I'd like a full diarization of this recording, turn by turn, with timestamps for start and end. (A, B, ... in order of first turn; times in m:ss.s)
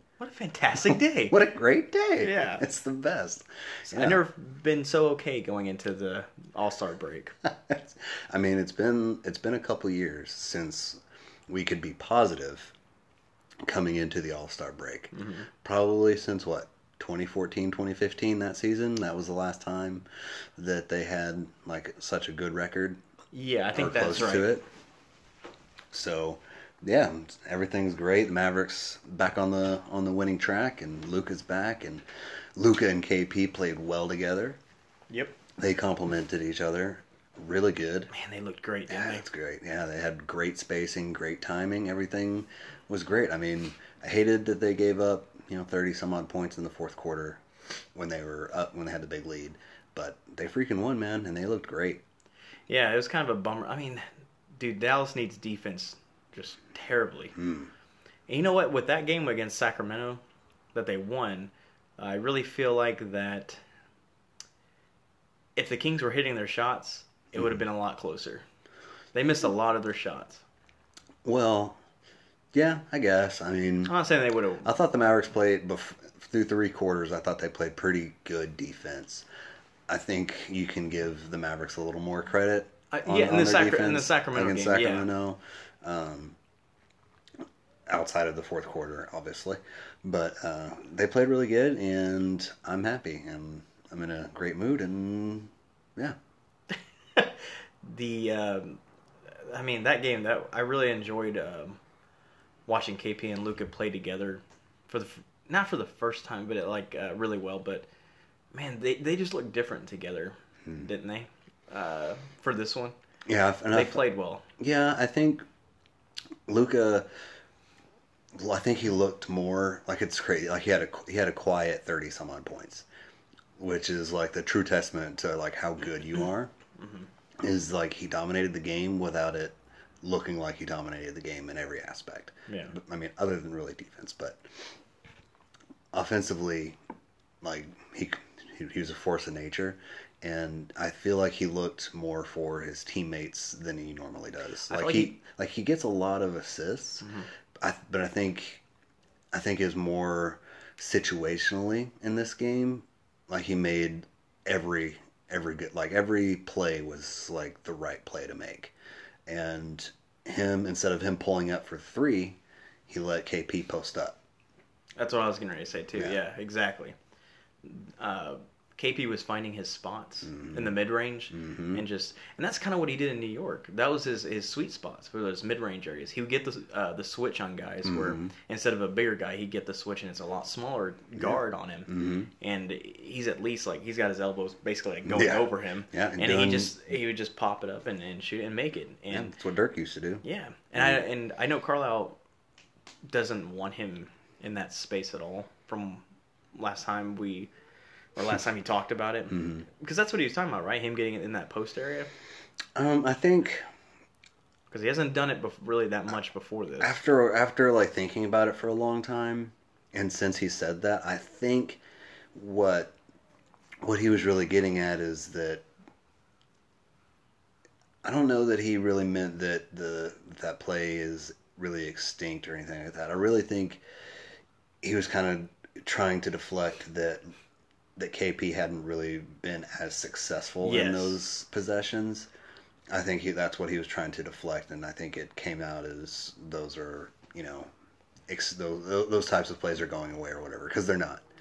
0:00.2-0:01.4 A
0:01.3-0:04.2 B
0:02.2-0:02.6 A
0:03.9-0:07.4 A
0:07.4-0:12.7 B
0:13.6-0:20.1 B
0:15.1-0:15.5 A
0:20.6-0:23.0 B
0:23.3-0:24.6 A
0:23.7-0:24.6 B
0:25.9-0:32.0 B
0:32.6-0:34.6 B
0:35.1-0:35.4 A
0:35.6-0:38.1 B
0:38.1-0:39.2 A
0:38.9-0:47.4 B
0:48.0-0:52.0 B
0:52.7-0:57.4 A
0:57.4-0:57.7 B
0:58.3-1:00.2 A
1:00.7-1:03.6 A
1:05.6-1:08.4 A
1:09.1-1:10.4 A
1:11.2-1:11.8 B
1:12.5-1:13.9 B
1:13.9-1:14.7 A
1:14.6-1:19.2 B
1:19.9-1:26.4 B
1:22.9-1:25.1 A
1:27.9-1:36.2 B
1:37.2-1:38.8 A
1:39.3-1:41.8 A
1:42.7-1:47.9 A
1:48.5-1:53.0 A
1:53.3-1:54.0 B
1:53.7-1:54.5 A
1:54.6-1:55.4 B
1:56.5-1:57.1 B
1:58.4-2:02.8 B
2:03.6-2:06.5 B
2:06.8-2:07.1 A
2:07.4-2:14.4 B
2:12.5-2:12.8 A
2:15.9-2:16.8 B
2:17.4-2:27.0 B
2:24.7-2:25.2 A
2:27.0-2:27.3 A
2:27.6-2:28.6 B
2:29.3-2:38.7 B
2:39.3-2:44.2 B
2:45.0-2:47.0 A
2:47.6-3:09.3 A
2:50.3-2:50.8 B
2:51.3-2:51.8 B
2:57.8-2:58.3 B
3:01.2-3:02.3 B
3:05.1-3:06.7 B
3:09.1-3:10.2 B
3:10.2-3:12.2 A
3:10.8-3:11.0 B
3:13.1-3:16.0 A
3:16.6-3:17.5 A
3:18.2-3:22.1 A
3:19.3-3:19.7 B
3:22.8-3:23.6 B
3:24.7-3:27.0 A
3:26.8-3:31.8 B
3:32.3-3:33.0 B
3:33.8-3:35.6 B
3:38.0-3:43.8 B
3:44.8-3:47.2 B
3:48.0-3:52.3 B
3:50.6-3:51.2 A
3:52.9-3:57.7 B
3:58.3-4:01.2 B